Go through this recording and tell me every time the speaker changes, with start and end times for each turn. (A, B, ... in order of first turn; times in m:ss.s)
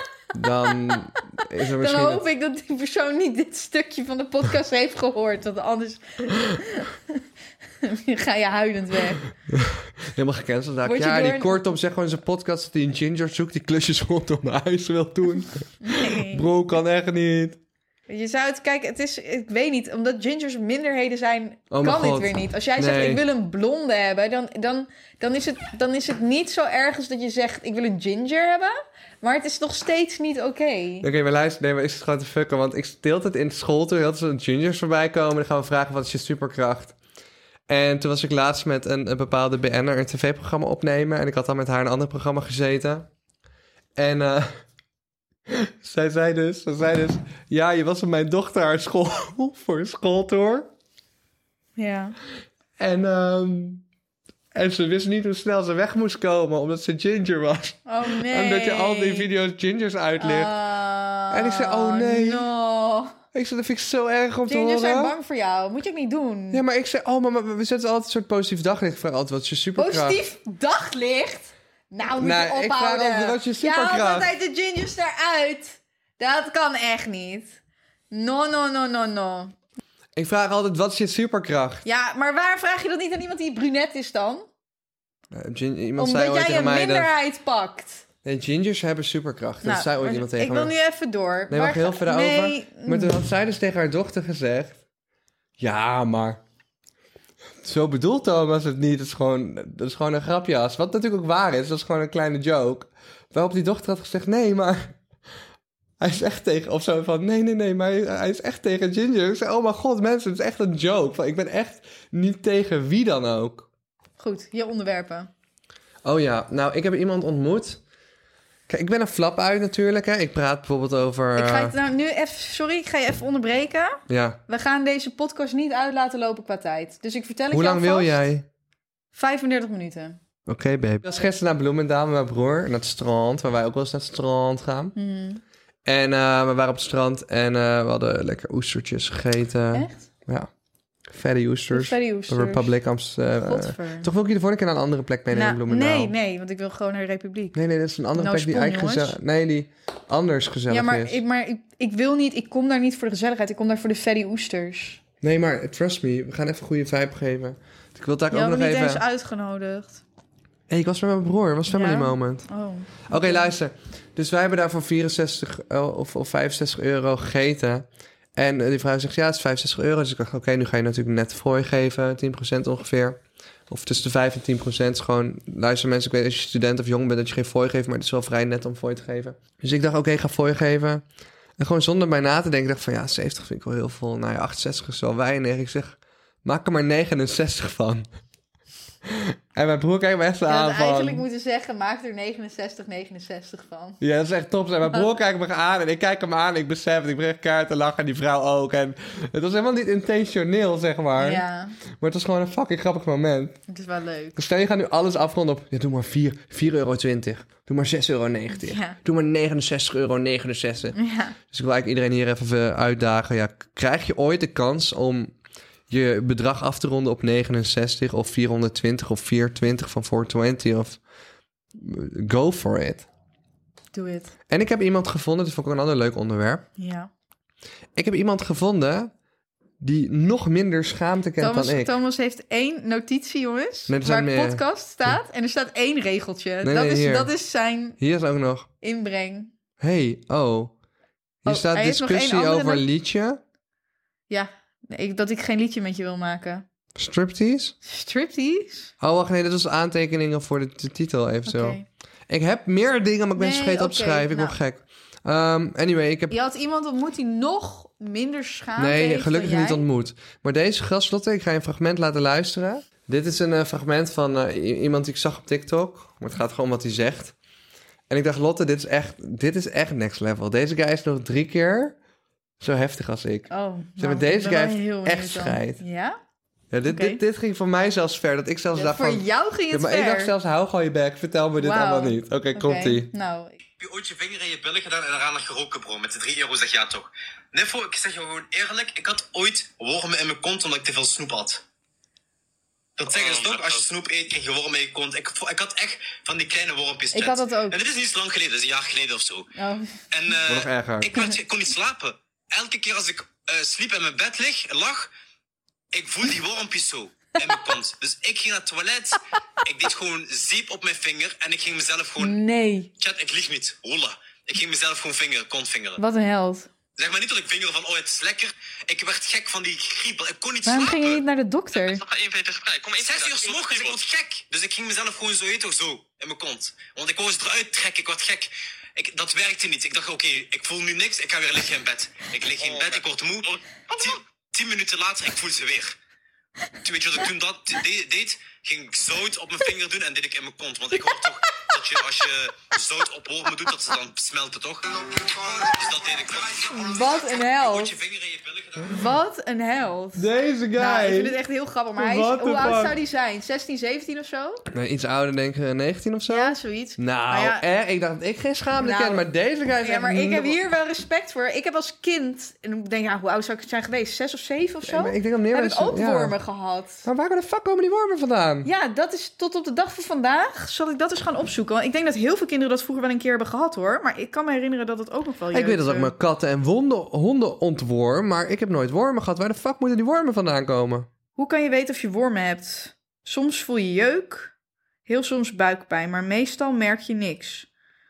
0:00.3-0:02.2 A
0:01.8-0:06.9 B
0:07.8-0:09.2 B
0:09.5-0:17.6 A
0:10.8-0:11.7 B
0:15.8-0:16.5 B
0:18.1-0:31.1 B
0:21.7-0:23.2 A
0:31.0-0:37.0 A
0:37.7-0:43.1 A
0:44.0-0:44.6 A
0:45.5-0:50.7 A
0:51.8-0:52.2 B
0:52.8-0:53.8 A
0:54.5-1:00.5 A
0:57.8-0:59.3 B
1:00.2-1:03.1 B
1:01.3-1:02.5 A
1:03.3-1:05.1 A
1:04.5-1:06.6 B
1:06.5-1:10.2 A
1:09.8-1:17.6 B
1:12.2-1:14.3 A
1:18.1-1:19.5 B
1:20.2-1:21.8 A
1:21.8-1:24.4 B
1:25.3-1:27.1 A
1:26.0-1:28.0 B
1:28.2-1:30.7 A
1:29.6-1:33.2 B
1:31.5-1:34.8 A
1:35.6-1:36.4 A
1:37.6-1:44.9 A
1:46.0-1:53.7 A
1:54.2-1:55.3 B
1:56.0-1:57.8 A
1:58.7-2:01.7 A
2:01.4-2:08.2 B
2:04.1-2:04.4 A
2:07.5-2:08.5 A
2:09.1-2:10.2 B
2:10.4-2:14.9 A
2:14.9-2:15.4 B
2:15.8-2:20.5 A
2:19.7-2:20.0 B
2:21.1-2:26.1 A
2:21.7-2:22.7 B
2:23.4-2:24.1 B
2:25.3-2:27.6 B
2:27.5-2:31.2 A
2:28.1-2:29.2 B
2:30.7-2:35.0 B
2:35.2-2:39.0 A
2:38.3-2:40.0 B
2:40.7-2:42.5 A
2:41.7-2:43.5 B
2:43.1-3:01.0 A
3:01.6-3:08.1 A
3:09.0-3:11.2 A
3:10.5-3:14.0 B
3:14.0-3:21.4 A
3:21.2-3:21.7 B
3:22.0-3:23.6 A
3:23.7-3:24.4 B
3:24.4-3:31.0 A
3:28.5-3:29.0 B
3:30.9-3:31.4 B
3:31.5-3:35.3 A
3:35.9-3:41.0 A
3:41.7-3:43.0 A
3:43.9-3:44.3 B
3:44.5-3:46.6 A
3:46.8-3:47.1 B
3:48.0-3:49.1 A
3:49.8-3:51.9 A
3:51.4-3:58.0 B
3:53.9-3:55.2 A
3:56.6-3:57.3 A
3:58.0-3:58.7 A
3:58.8-3:59.5 B
3:59.8-4:00.7 A
4:01.4-4:03.4 A
4:01.4-4:02.8 B
4:04.3-4:06.6 B
4:06.9-4:07.8 A
4:07.8-4:08.9 B
4:09.0-4:16.4 A
4:11.4-4:11.8 B
4:13.4-4:14.6 B
4:16.3-4:19.8 B
4:18.8-4:27.3 A
4:28.1-4:32.0 A
4:32.6-4:35.8 A
4:33.5-4:36.2 B
4:36.7-4:43.1 A
4:36.9-4:37.2 B
4:38.7-4:40.3 B
4:41.6-4:43.6 B
4:43.8-4:51.6 C
4:53.0-4:59.5 C
4:53.1-4:53.8 D
4:57.1-4:57.8 B
4:59.6-5:00.0 B
5:00.1-5:05.1 C
5:00.4-5:01.2 A
5:05.9-5:12.4 C
5:12.2-5:12.9 B
5:13.0-5:16.0 C
5:16.0-5:16.7 B
5:17.0-5:21.2 C
5:20.6-5:22.0 B
5:21.8-5:24.0 D
5:23.0-5:36.0 C
5:32.6-5:33.1 D
5:36.8-5:49.1 C
5:46.7-5:48.0 B
5:48.9-5:54.6 B
5:50.2-5:51.4 A
5:52.0-5:53.0 A
5:54.7-6:00.6 A
5:56.3-5:57.6 B
5:58.8-5:59.3 B
5:59.8-6:07.0 B
6:04.8-6:06.4 A
6:07.0-6:08.7 A
6:08.6-6:16.1 B
6:15.5-6:21.1 A
6:21.4-6:24.5 B
6:25.0-6:27.7 B